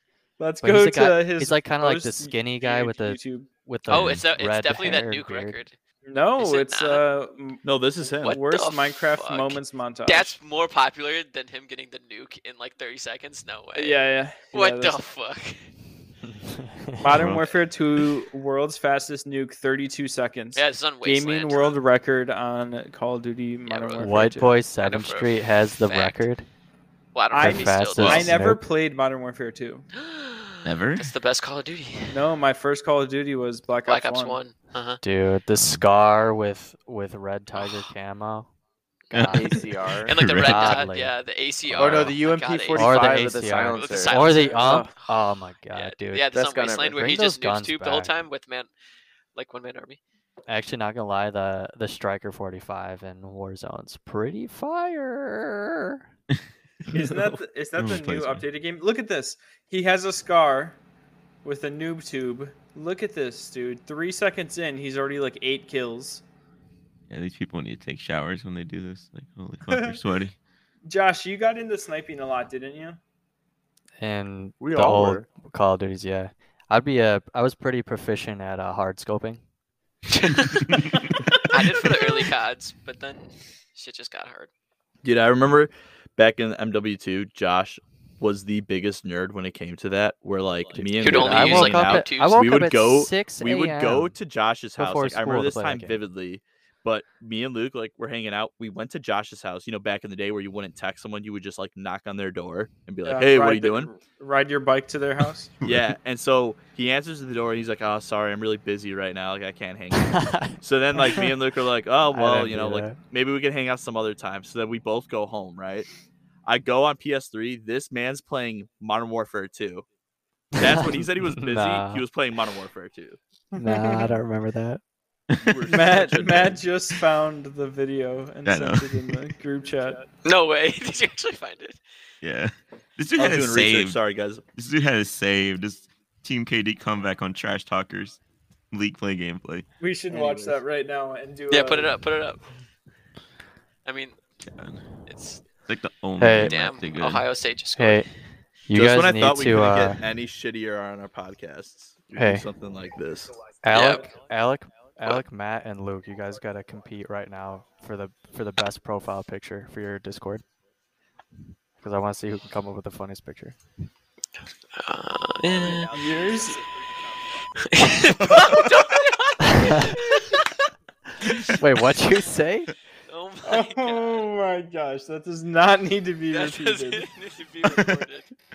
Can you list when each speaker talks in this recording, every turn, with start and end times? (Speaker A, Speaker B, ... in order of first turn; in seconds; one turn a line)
Speaker A: 0.4-3.5
Speaker B: 0.6-5.6
Speaker C: 3.9-5.7
Speaker D: 3.9-4.2
Speaker A: 6.0-10.3
Speaker C: 6.4-7.0
Speaker E: 7.6-8.4
Speaker C: 8.2-14.0
Speaker A: 13.8-15.0
Speaker C: 14.5-15.7
Speaker B: 16.2-17.2
Speaker A: 17.0-24.5
Speaker D: 17.1-17.5
Speaker C: 20.5-21.8
Speaker C: 23.6-24.3
Speaker B: 24.0-26.4
Speaker C: 24.8-26.2
Speaker C: 27.1-28.3
Speaker A: 27.3-29.9
Speaker B: 27.4-28.6
Speaker C: 29.9-32.2
Speaker D: 30.6-31.1
Speaker A: 32.1-34.4
Speaker C: 33.9-35.0
Speaker B: 35.0-38.5
Speaker D: 35.5-35.8
Speaker C: 37.5-37.9
Speaker B: 39.1-39.6
Speaker D: 39.1-39.6
Speaker F: 39.3-40.1
Speaker C: 40.0-42.9
Speaker D: 40.1-40.9
Speaker B: 40.2-41.1
Speaker D: 41.7-42.2
Speaker F: 41.8-44.7
Speaker B: 42.7-46.4
Speaker C: 43.5-45.1
Speaker C: 45.7-48.7
Speaker F: 46.3-47.0
Speaker B: 46.9-48.1
Speaker C: 49.3-50.0
Speaker B: 50.5-56.0
Speaker D: 56.9-58.4
Speaker A: 56.9-60.8
Speaker A: 61.4-66.2
Speaker D: 67.1-70.3
Speaker A: 69.7-70.0
Speaker A: 70.9-73.0
Speaker B: 74.0-79.4
Speaker F: 74.6-75.3
Speaker C: 80.1-80.9
Speaker C: 81.5-84.5
Speaker E: 85.0-103.9
Speaker C: 91.0-92.5
Speaker B: 91.0-94.1
Speaker B: 94.8-96.0
Speaker A: 103.0-105.5
Speaker D: 105.6-105.9
Speaker E: 105.6-115.9
Speaker B: 110.1-110.5
Speaker B: 112.1-113.0
Speaker E: 116.5-119.8
Speaker E: 120.5-123.2
Speaker B: 120.6-122.0
Speaker A: 123.5-124.0
Speaker B: 123.5-124.8
Speaker E: 125.4-126.6
Speaker A: 125.7-130.0
Speaker D: 128.4-129.2
Speaker C: 130.2-131.8
Speaker D: 132.2-134.0
Speaker E: 133.2-134.4
Speaker D: 134.5-138.2
Speaker D: 138.7-139.6
Speaker A: 139.8-141.9
Speaker C: 141.5-142.4
Speaker C: 143.8-144.2
Speaker D: 144.4-144.8
Speaker C: 145.1-145.6
Speaker D: 145.6-147.3
Speaker B: 146.2-146.6
Speaker C: 146.4-148.1
Speaker B: 147.8-148.1
Speaker B: 148.7-150.0
Speaker E: 148.7-153.3
Speaker B: 152.2-152.4
Speaker B: 153.6-160.4
Speaker C: 153.7-154.1
Speaker B: 161.8-163.6
Speaker C: 164.8-166.0
Speaker A: 165.9-166.7
Speaker C: 167.6-170.4
Speaker D: 168.3-168.6
Speaker C: 171.3-171.5
Speaker B: 171.5-172.7
Speaker C: 173.1-174.3
Speaker A: 173.4-177.1
Speaker C: 176.3-178.3
Speaker D: 177.7-178.0